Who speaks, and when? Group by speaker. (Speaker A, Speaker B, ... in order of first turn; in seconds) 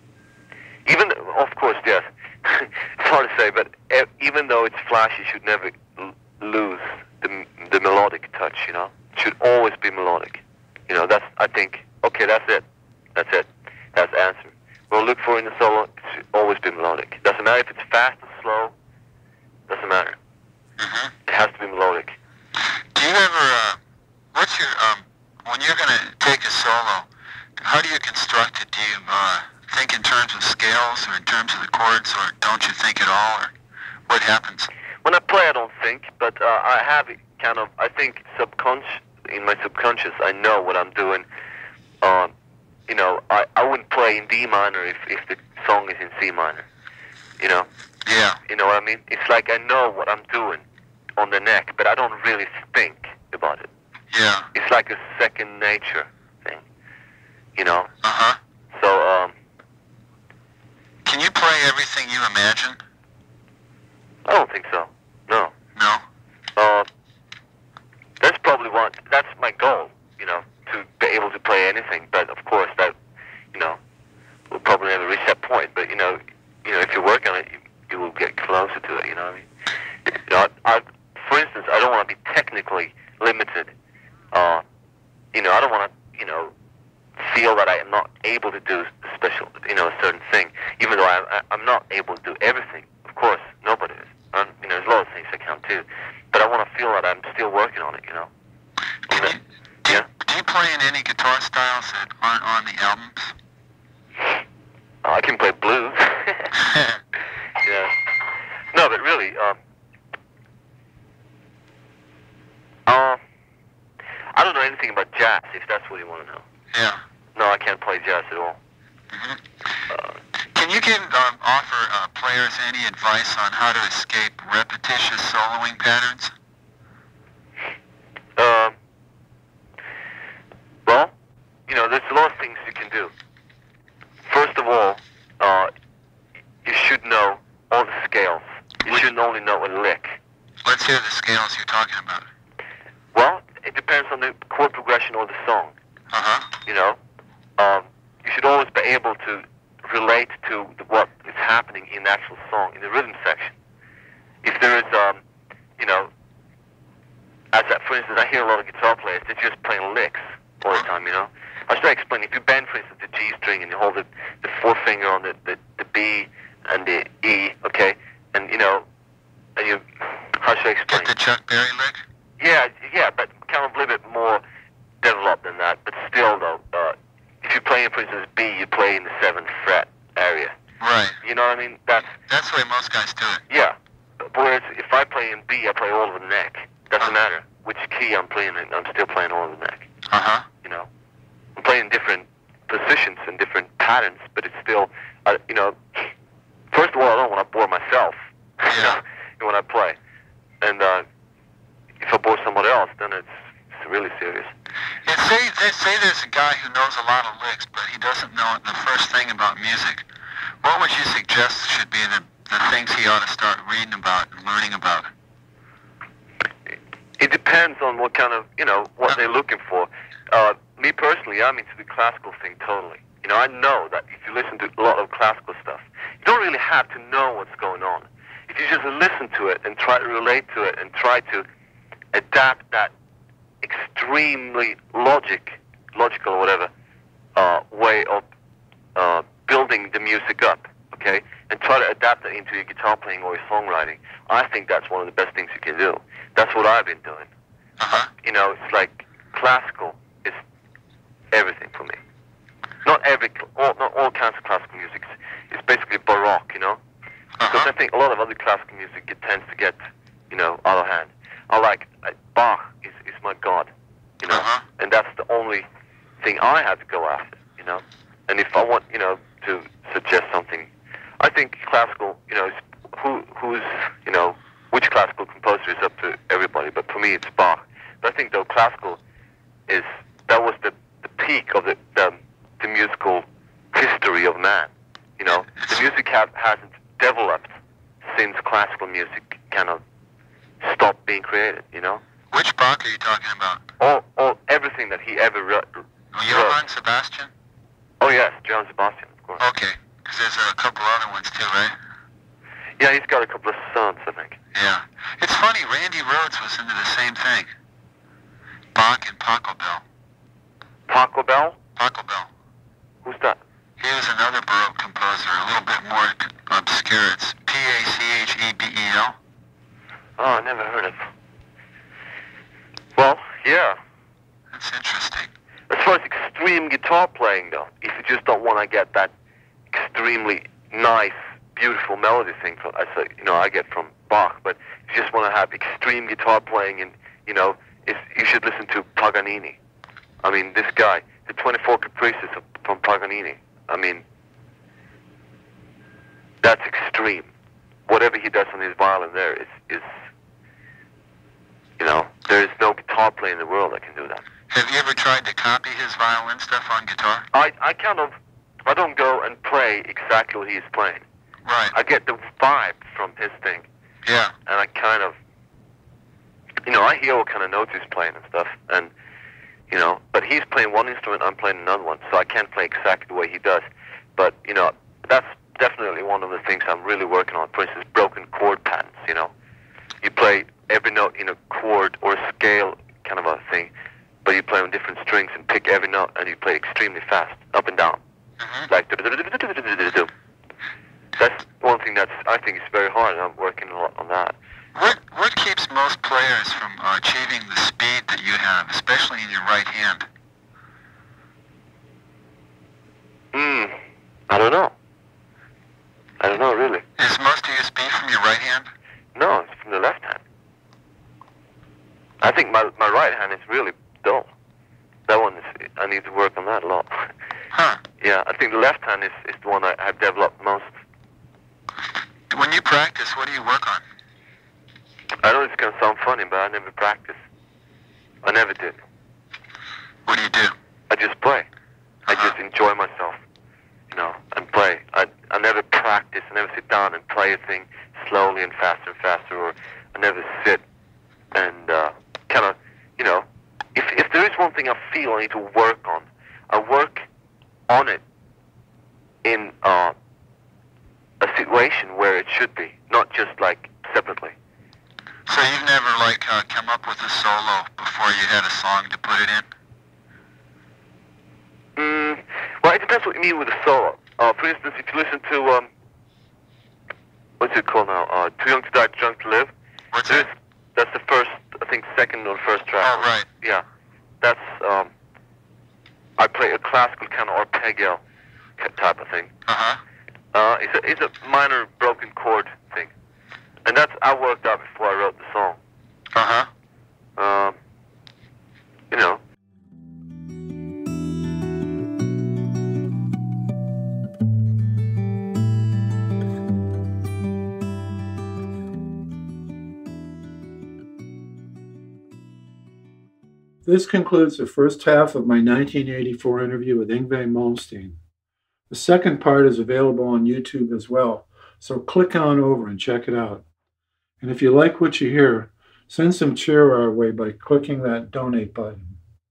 Speaker A: 0.9-12.6, 13.2-18.7, 19.7-20.2, 21.3-22.1, 35.0-41.2, 42.0-42.3, 42.9-46.7, 47.4-47.7, 48.5-50.6, 51.2-53.7, 54.5-56.6, 57.6-57.9, 58.7-59.3, 64.3-65.5, 66.6-66.9, 68.2-72.9, 73.5-73.8, 74.5-79.5, 80.1-83.7, 84.3-84.6, 85.3-86.5, 87.2-98.3, 99.1-99.3, 105.0-106.5, 107.6-108.0, 108.7-109.6, 112.9-113.2, 114.3-116.4, 117.4-118.6, 128.4-128.8, 130.9-131.1, 131.7-133.1, 134.3-135.7, 136.7-140.2, 143.1-145.7, 146.7-147.0, 147.6-153.6, 154.4-155.2, 155.8-156.1, 157.5-168.9, 169.6-171.1, 172.4-174.4, 175.0-180.6, 181.2-182.1, 183.5-189.9, 190.6-190.9, 191.6-196.1, 196.7-200.0, 200.6-201.1, 202.0-204.5, 217.2-231.4, 232.1-232.9, 233.6-236.7, 237.4-238.3, 238.9-247.3, 248.1-250.4, 251.3-252.0, 252.8-256.8, 257.5-259.8, 260.3-263.7, 264.2-265.6, 266.2-270.7, 271.2-279.0, 279.7-287.6, 288.1-289.8, 290.6-292.0, 293.8-296.6, 298.0-299.4, 302.8-304.4, 310.9-311.6, 313.1-313.4, 320.2-321.1, 323.0-323.8, 325.7-329.1, 329.7-339.6, 340.2-344.0, 346.4-347.3, 347.9-349.9, 351.8-354.2, 357.3-358.1, 358.7-361.0, 361.7-363.7, 364.5-365.2, 366.7-368.9, 369.7-373.6, 374.2-379.3, 380.0-383.7, 384.2-388.0, 388.7-390.1, 391.2-394.4, 403.3-403.8, 404.3-404.7, 406.2-406.8, 409.2-410.2, 412.2-414.3, 415.1-417.1, 418.0-420.7, 425.2-427.2, 428.2-428.8, 430.9-431.5, 432.1-433.2, 433.9-440.6, 441.3-447.1, 447.7-448.0, 449.2-449.9, 451.2-454.4, 461.8-465.7, 467.4-469.5, 470.1-473.6, 474.2-474.9, 476.2-478.0, 478.6-479.3, 480.3-482.9, 483.6-485.6, 487.2-487.6, 488.9-489.2
Speaker B: 20.8-21.1, 22.9-23.8, 24.3-27.1, 27.6-33.5, 34.1-34.7, 48.1-48.4, 54.1-54.5, 58.0-58.4, 61.0-62.8, 65.8-66.0, 99.1-103.3, 116.7-117.0, 119.1-119.4, 120.5-126.3, 140.7-142.3, 146.1-146.5, 170.9-172.0, 180.8-181.2, 182.3-183.4, 190.1-190.5, 198.7-199.0, 205.1-210.0, 210.6-215.1, 247.8-248.1, 257.4-257.7, 264.3-264.6, 285.5-285.9, 292.3-293.6, 296.1-297.3, 299.4-301.8, 304.5-307.5, 308.8-309.8, 311.8-312.3, 313.8-319.2, 324.5-325.3, 354.5-357.3, 361.4-361.7, 364.1-364.3, 388.4-388.7, 394.8-400.1, 407.0-408.7, 417.5-417.8, 422.3-423.8, 430.1-430.5, 432.1-432.4, 455.3-459.5, 469.9-470.3, 472.8-473.3, 479.5-479.8, 486.1-486.5
Speaker C: 503.6-508.0, 508.7-513.4, 514.2-519.0